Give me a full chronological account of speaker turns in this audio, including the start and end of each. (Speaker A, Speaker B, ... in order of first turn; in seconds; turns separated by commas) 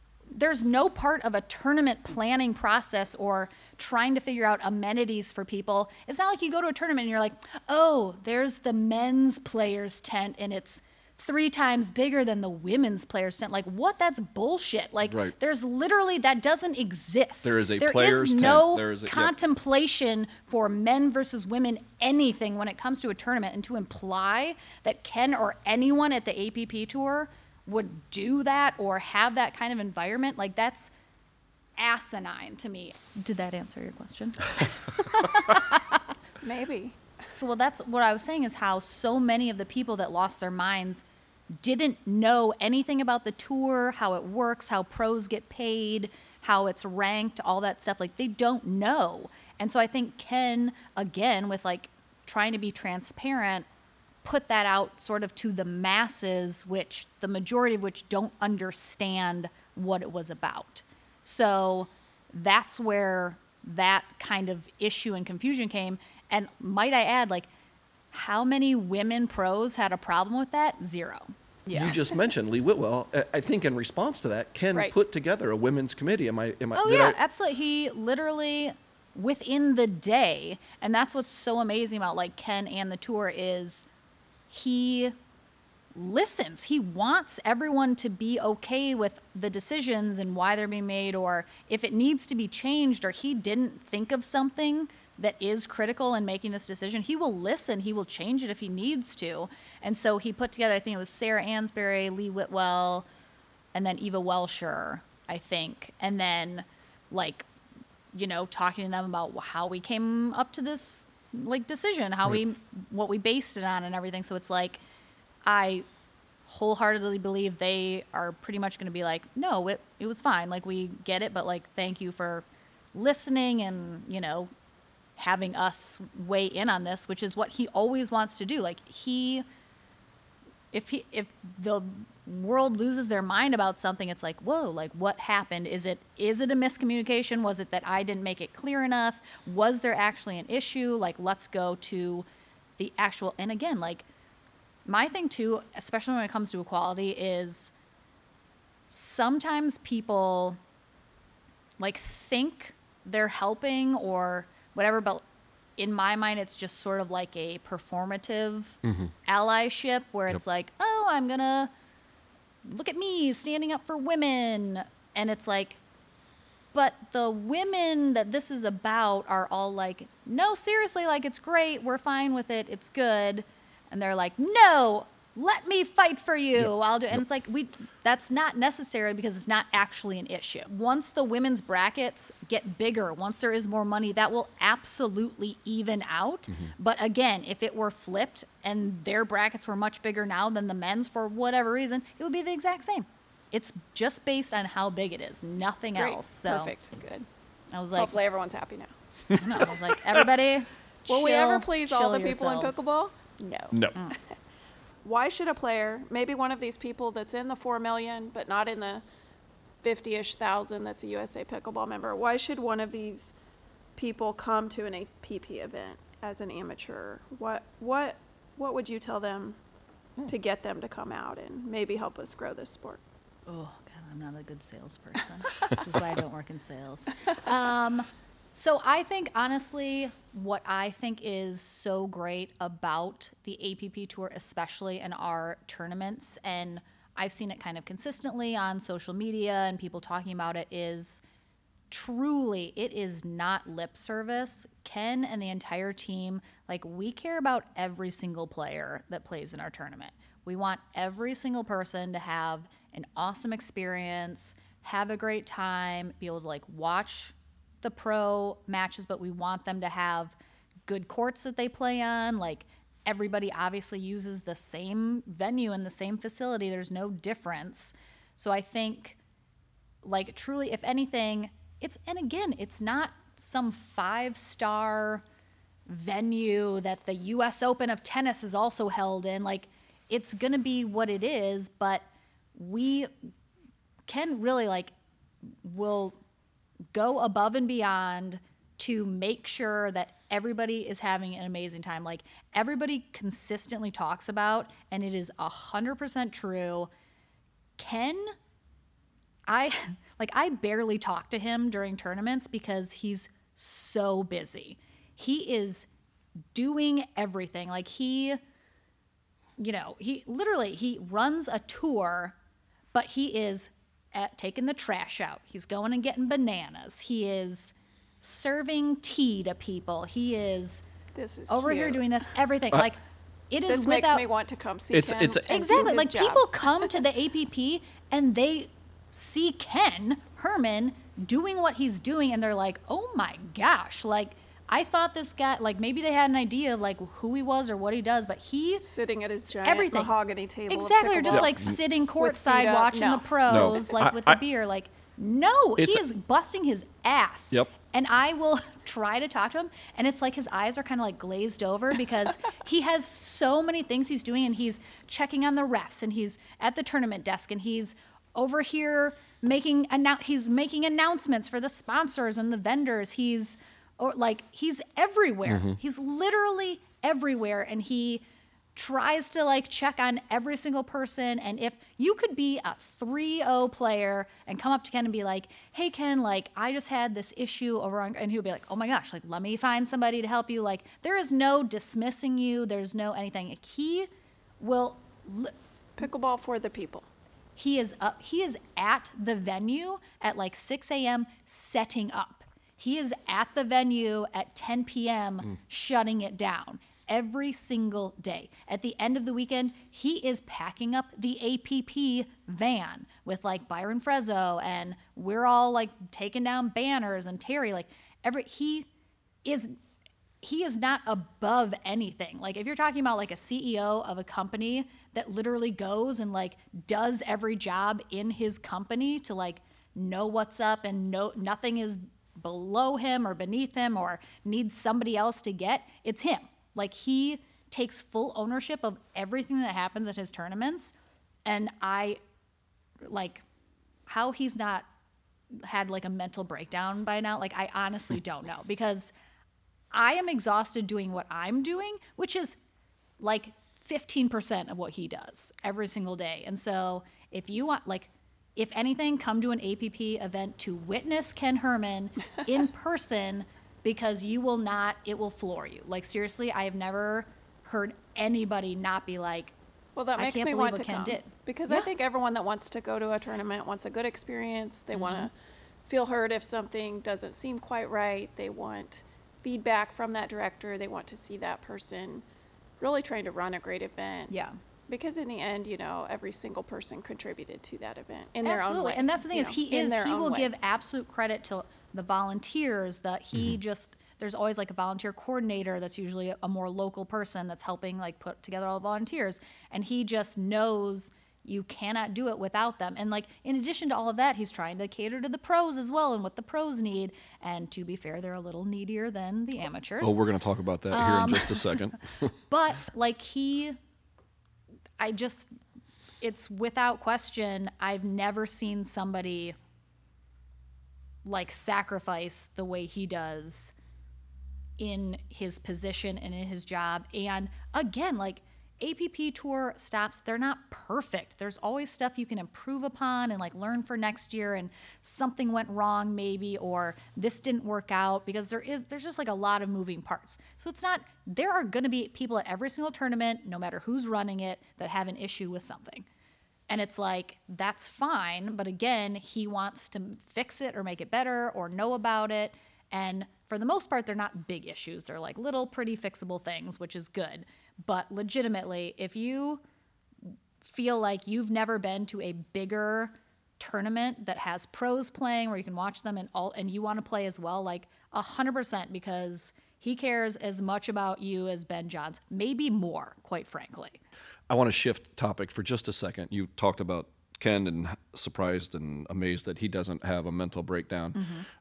Speaker A: 0.3-30.9, Speaker B: 15.0-15.3, Speaker B: 17.4-19.3, Speaker A: 31.8-36.0, Speaker C: 36.4-37.0, Speaker A: 37.4-41.0, Speaker A: 41.6-53.6, Speaker A: 54.2-67.5, Speaker A: 68.1-71.8, Speaker C: 71.7-72.0, Speaker B: 71.7-77.2, Speaker A: 76.7-83.9, Speaker A: 84.5-85.1, Speaker A: 85.9-103.0, Speaker A: 103.7-107.5, Speaker A: 108.1-114.8, Speaker A: 115.4-115.8, Speaker A: 116.5-124.5, Speaker A: 125.2-129.4, Speaker A: 130.7-142.2, Speaker A: 142.8-144.0, Speaker A: 144.8-147.7, Speaker A: 148.9-150.6, Speaker A: 151.8-155.2, Speaker A: 155.8-161.7, Speaker B: 158.8-159.1, Speaker A: 162.6-165.8, Speaker A: 166.7-196.7, Speaker C: 195.9-197.2, Speaker A: 197.7-198.1, Speaker C: 197.9-198.9, Speaker B: 199.3-200.2, Speaker A: 199.3-202.8, Speaker C: 201.1-203.9, Speaker B: 203.7-203.9, Speaker C: 205.0-209.0, Speaker C: 209.8-213.3, Speaker C: 214.0-219.6, Speaker C: 220.2-223.0, Speaker A: 223.5-241.2, Speaker A: 241.9-269.2, Speaker A: 270.0-275.2, Speaker A: 275.9-282.0, Speaker A: 282.5-283.1, Speaker A: 284.1-284.9, Speaker A: 285.6-286.1, Speaker A: 286.9-296.9, Speaker A: 297.8-298.3, Speaker A: 299.5-305.9, Speaker A: 306.5-308.4, Speaker A: 309.6-312.3, Speaker A: 312.9-320.8, Speaker C: 321.1-322.2, Speaker A: 321.5-323.0, Speaker A: 323.5-324.2, Speaker C: 323.7-327.0, Speaker B: 324.9-325.5, Speaker A: 325.5-338.9, Speaker C: 338.8-343.9, Speaker A: 339.5-340.1, Speaker A: 340.7-368.2, Speaker B: 341.3-341.8, Speaker B: 343.5-344.4, Speaker B: 365.4-365.8, Speaker A: 368.7-384.1, Speaker A: 384.6-385.5, Speaker C: 386.0-387.1, Speaker A: 387.6-408.9, Speaker A: 409.4-409.7, Speaker A: 410.4-430.9, Speaker A: 431.4-432.2, Speaker A: 433.0-433.4, Speaker A: 434.1-434.9, Speaker A: 435.6-439.1, Speaker A: 439.9-442.6, Speaker A: 443.2-459.5, Speaker C: 459.9-465.3, Speaker A: 460.2-461.9, Speaker A: 464.9-465.3, Speaker C: 465.9-472.2, Speaker C: 472.8-474.3, Speaker A: 474.3-474.6, Speaker C: 474.9-480.5, Speaker A: 478.4-500.2, Speaker B: 500.0-502.3, Speaker A: 500.9-501.9, Speaker A: 502.5-503.8, Speaker A: 505.0-505.5, Speaker A: 506.2-509.6, Speaker A: 511.2-513.7, Speaker A: 514.8-536.0, Speaker A: 536.7-549.6, Speaker A: 550.3-564.0, Speaker B: 564.5-571.3, Speaker A: 571.1-571.5